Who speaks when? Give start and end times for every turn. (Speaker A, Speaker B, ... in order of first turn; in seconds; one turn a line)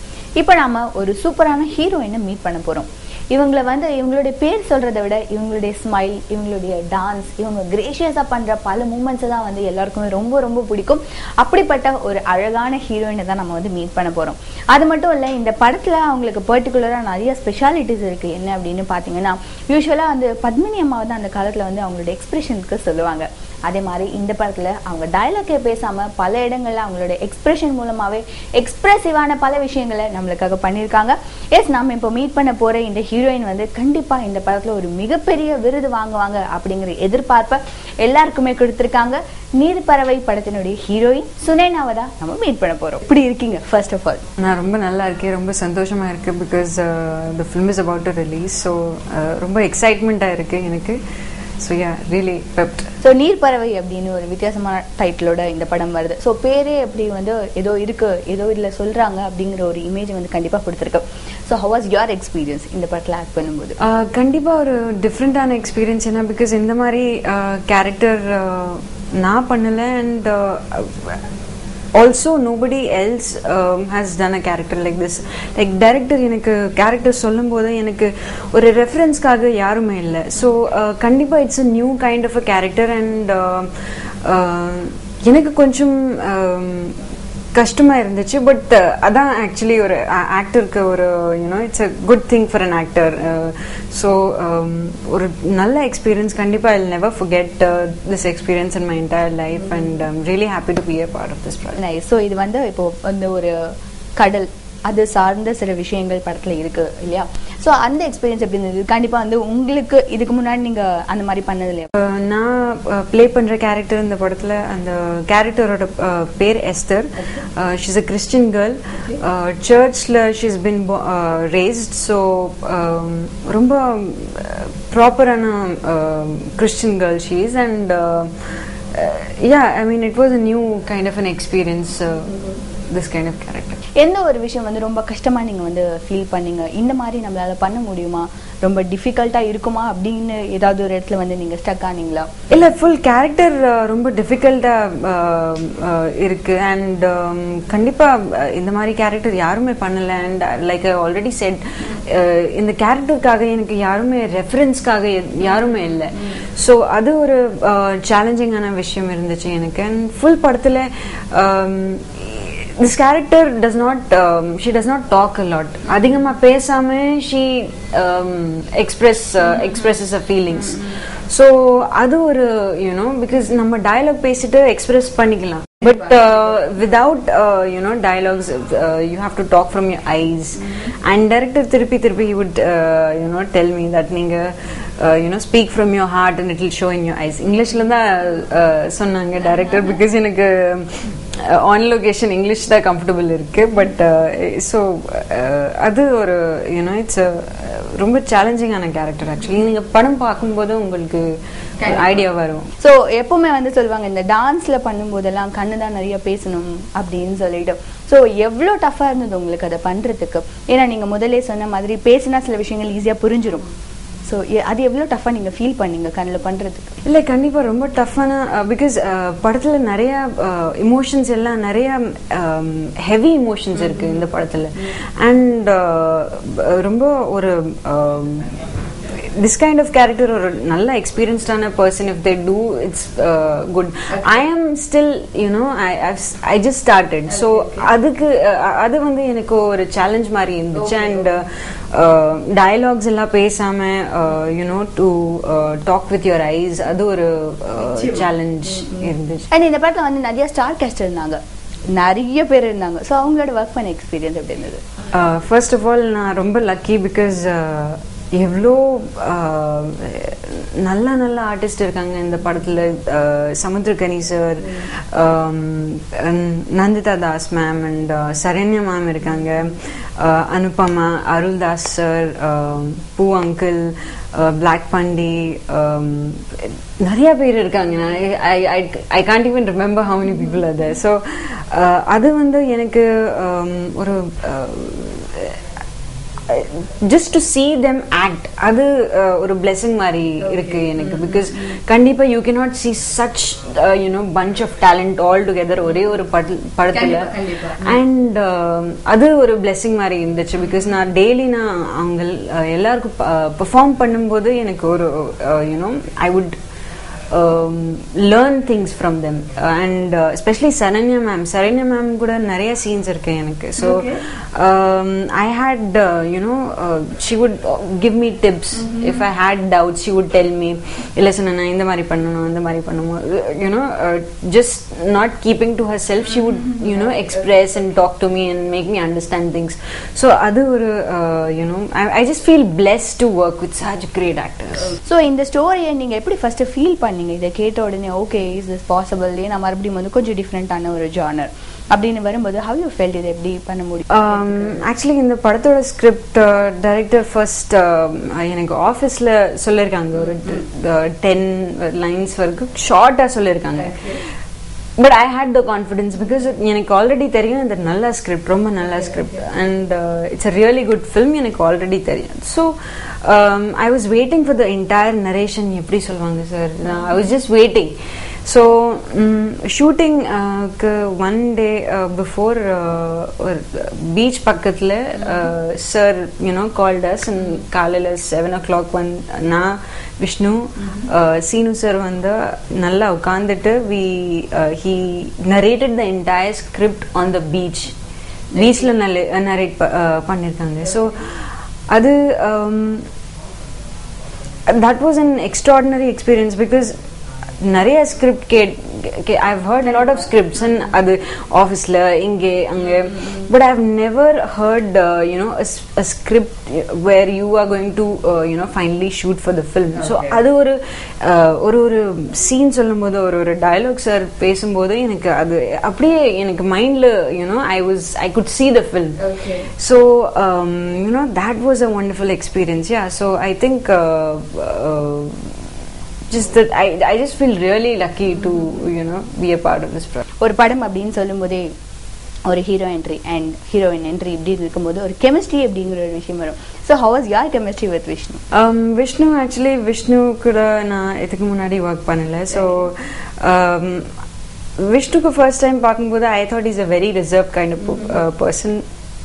Speaker A: 0.4-44.2
Speaker B: 44.4-51.0
Speaker B: 51.6-52.9
Speaker A: 53.0-63.8
Speaker B: 63.8-71.2
Speaker B: 71.9-83.7
Speaker B: 84.2-87.0
Speaker B: 87.5-101.8
Speaker A: 101.8-111.9
Speaker B: 111.9-133.8
Speaker A: 133.9-142.4
Speaker B: 142.5-201.3
Speaker B: 201.8-202.7
Speaker A: 202.8-213.6
Speaker A: 214.2-216.9
Speaker B: 217.0-228.5
Speaker B: 229.4-249.5
Speaker A: 249.5-251.4
Speaker A: 251.9-254.8
Speaker B: 255.1-285.6
Speaker B: 286.5-306.5
Speaker B: 307.3-335.0
Speaker A: 335.0-344.2
Speaker B: 344.1-354.2
Speaker B: 355.0-387.9
Speaker B: 388.5-391.2
Speaker B: 391.9-393.0
Speaker B: 394.7-396.9
Speaker B: 397.6-425.5
Speaker B: 426.3-430.2
Speaker A: 430.4-431.6
Speaker A: 432.5-438.4
Speaker B: 438.5-444.1
Speaker B: 444.8-448.8